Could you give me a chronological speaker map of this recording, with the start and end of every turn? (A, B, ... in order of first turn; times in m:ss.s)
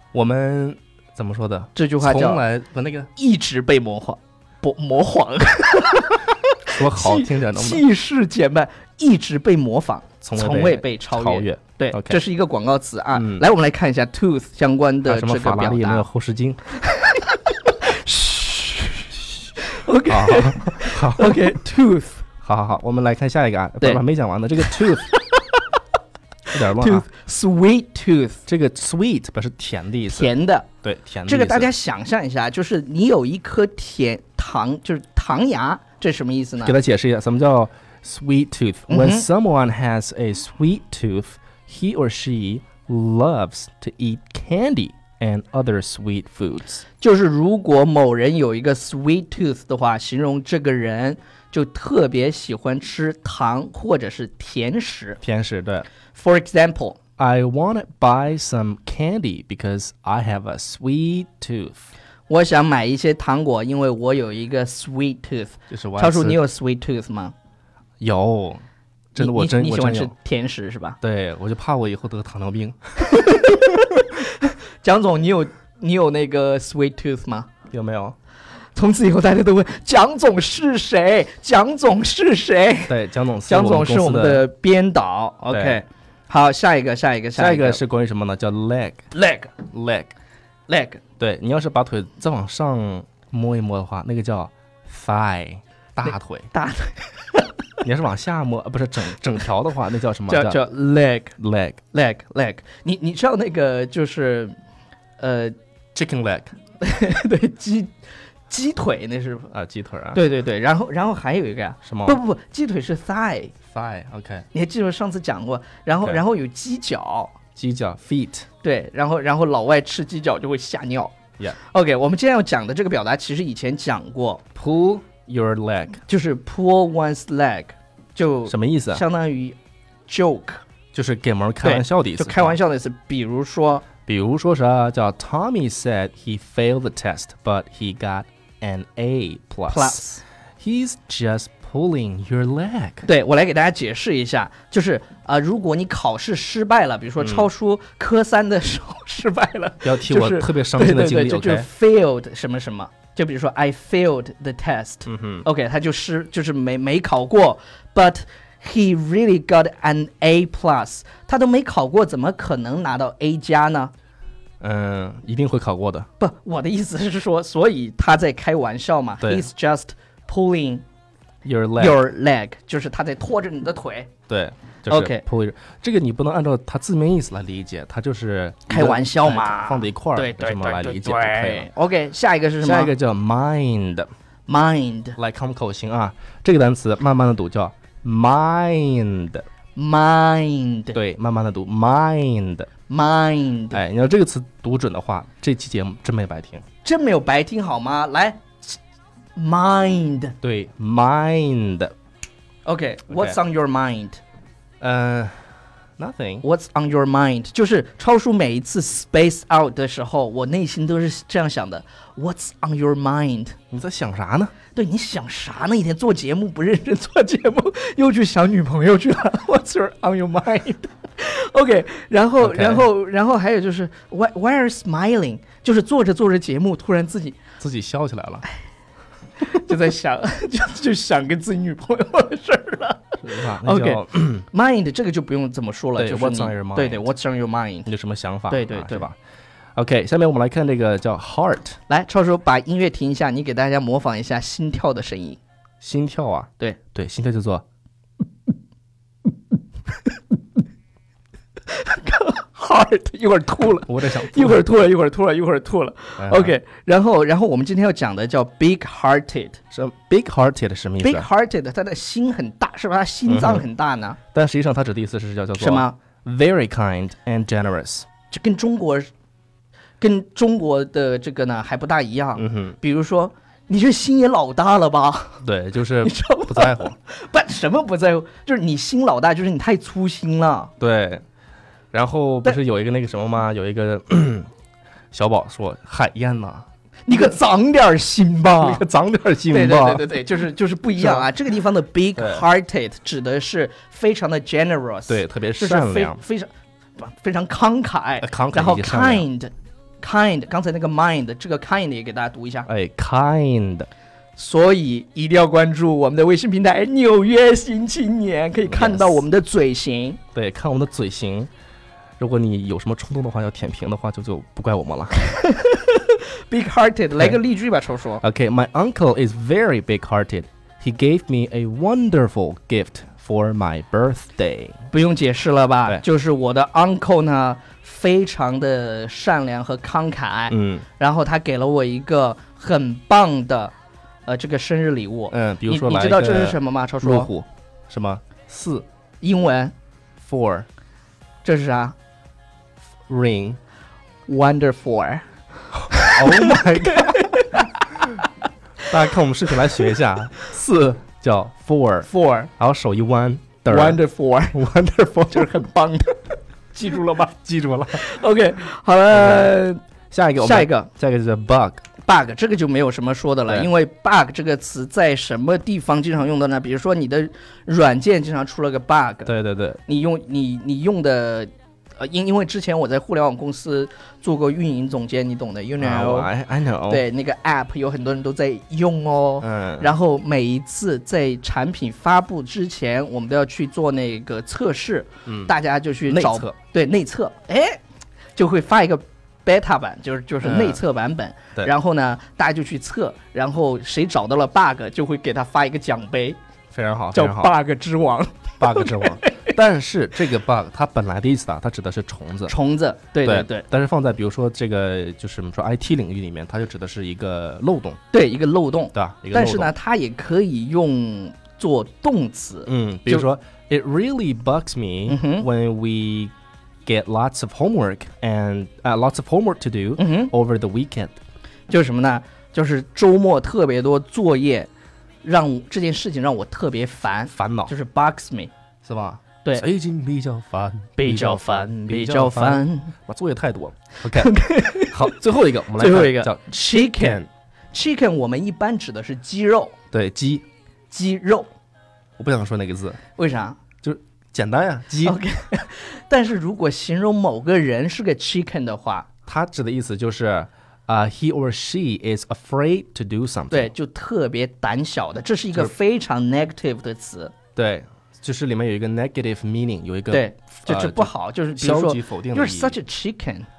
0:00.1-0:03.1 A
0:01.8-0:02.4 B
0:03.2-0:16.1 B
0:06.8-0:07.8 A
0:10.2-0:12.2 A
0:13.2-0:13.5 A
0:15.0-0:16.6 A
0:16.7-0:22.2 B
0:20.1-0:21.6 A
0:22.4-0:25.1 A
0:24.7-0:25.6 B
0:26.5-0:27.0 A
0:26.5-0:28.4 B
0:28.5-0:30.3 A
0:30.1-0:30.7 B
0:30.8-0:31.7 A
0:31.3-0:36.8 B
0:36.6-0:46.8 A
0:38.9-0:39.3 B
0:47.0-0:55.2 B
0:55.2-0:55.9 A
0:56.1-0:57.0 B
0:57.2-1:01.8 A
1:02.3-1:07.4 B
1:05.7-1:06.4 A
1:08.0-1:08.6 A
1:09.2-1:10.1 A
1:09.2-1:11.0 B
1:11.0-1:13.2 A
1:13.0-1:17.5 B
1:17.7-1:18.2 A
1:18.8-1:23.0 B
1:22.9-1:24.5 A
1:23.5-1:27.8 B
1:25.5-1:25.8 A
1:27.4-1:29.0 A
1:29.1-1:29.5 B
1:29.7-1:30.1 A
1:30.7-1:31.0 B
1:31.2-1:36.5 A
1:36.5-1:37.5 B
1:37.8-1:40.6 A
1:40.3-1:41.4 B
1:41.4-1:41.8 A
1:41.9-1:44.6 B
1:45.2-1:45.6 B
1:45.9-1:46.5 A
1:46.8-1:47.9 B
1:48.5-1:49.5 B
1:49.5-1:50.2 A
1:50.1-1:53.5 B
1:51.8-1:52.2 A
1:53.7-1:54.5 A
1:54.5-1:57.4 B
1:57.6-1:58.5 A
1:58.6-2:04.4 B
2:04.6-2:06.0 A
2:06.1-2:09.6 B
2:08.5-2:09.0 A
2:10.1-2:10.6 B
2:10.9-2:12.6 A
2:11.6-2:13.9 B
2:14.1-2:20.1 A
2:19.7-2:20.2 B
2:20.6-2:23.1 A
2:23.0-2:43.9 B
2:27.2-2:27.5 A
2:29.8-2:31.7 A
2:35.1-2:35.5 A
2:44.6-2:46.1 A
2:46.2-2:50.8 B
2:49.2-2:49.5 A
2:51.4-2:52.0 A
2:51.8-2:54.1 B
2:54.3-3:01.7 A
2:54.9-2:55.2 B
2:58.7-3:02.9 B
3:02.6-3:04.1 A
3:04.5-3:05.2 B
3:05.2-3:09.5 A
3:09.8-3:11.0 B
3:10.9-3:12.7 A
3:12.9-3:13.8 B
3:13.7-3:16.6 A
3:16.8-3:18.8 B
3:19.4-3:20.4 B
3:20.4-3:21.9 A
3:22.6-3:24.2 B
3:23.1-3:23.4 A
3:24.8-3:25.4 A
3:26.0-3:26.4 A
3:26.4-3:33.6 B
3:33.7-3:34.6 A
3:34.7-3:47.4 B
3:42.4-3:42.9 A
3:47.6-3:48.5 A
3:49.4-3:57.9 B
3:53.2-3:54.5 A
3:56.0-3:57.1 A
3:57.9-3:59.2 A
3:58.5-3:59.1 B
3:59.8-4:01.8 A
4:01.9-4:05.4 B
4:05.8-4:07.6 A
4:11.7-4:19.6 B
4:13.9-4:14.6 A
4:16.2-4:16.6 A
4:19.7-4:21.3 A
4:21.0-4:24.2 B
4:23.3-4:23.7 A
4:24.3-4:28.1 A
4:25.6-4:26.0 B
4:28.3-4:29.1 B
4:30.0-4:35.4 B
4:32.4-4:32.8 A
4:35.4-4:37.0 A
4:36.0-4:40.7 B
4:40.8-4:41.2 A
4:41.9-4:44.5 A
4:45.1-4:46.7 A
4:47.1-4:48.9 B
4:48.6-4:50.1 A
4:49.5-5:02.7 B
4:51.0-4:51.3 A
4:52.2-4:52.4 A
4:55.1-4:56.2 A
4:58.2-4:59.3 A
5:02.7-5:03.9 A
5:04.4-5:10.2 B
5:08.7-5:09.2 A
5:10.4-5:11.5 A
5:12.2-5:15.2 A
5:15.2-5:18.2 B
5:18.2-5:24.8 A
5:24.9-5:33.7 B
5:30.5-5:30.8 A
5:34.3-5:37.3 B
5:35.3-5:38.9 A
5:39.2-5:39.7 B
5:40.2-5:40.7 A
5:41.4-5:42.0 B
5:43.1-5:43.6 A
5:44.3-5:45.3 B
5:45.7-5:47.3 A
5:45.9-5:48.1 B
5:48.9-5:54.0 A
5:52.1-5:52.5 B
5:53.7-5:54.6 B
5:54.5-5:55.6 A
5:55.3-5:57.4 B
5:57.4-5:58.1 A
5:57.9-5:59.8 B
5:59.1-5:59.6 A
6:00.1-6:01.8 A
6:00.4-6:00.9 B
6:02.0-6:09.3 B
6:09.3-6:09.8 A
6:09.9-6:16.3 B
6:15.8-6:17.0 A
6:16.9-6:27.8 B
6:19.4-6:19.9 A
6:25.3-6:25.5 A
6:26.1-6:26.6 A
6:28.4-6:36.4 B
6:30.4-6:30.8 A
6:36.7-6:37.5 A
6:37.1-6:39.5 B
6:38.6-6:42.6 A
6:42.5-6:43.6 B
6:43.2-6:48.0 A
6:48.1-6:53.3 B
6:48.9-6:49.7 A
6:52.7-6:56.3 A
6:55.1-6:55.5 B
6:56.8-7:01.2 A
7:00.0-7:00.3 B
7:01.7-7:04.7 B
7:05.2-7:08.5 B
7:07.3-7:07.7 A
7:08.8-7:17.3 A
7:11.0-7:12.9 B
7:14.1-7:15.1 B
7:15.8-7:17.2 B
7:17.7-7:19.8 B
7:19.9-7:20.4 A
7:20.9-7:21.5 B
7:22.2-7:23.0 A
7:23.2-7:23.6 B
7:23.8-7:25.2 A
7:25.0-7:29.1 B
7:29.3-7:33.7 A
7:33.5-7:37.3 B
7:37.6-7:42.8 A
7:40.1-7:43.5 B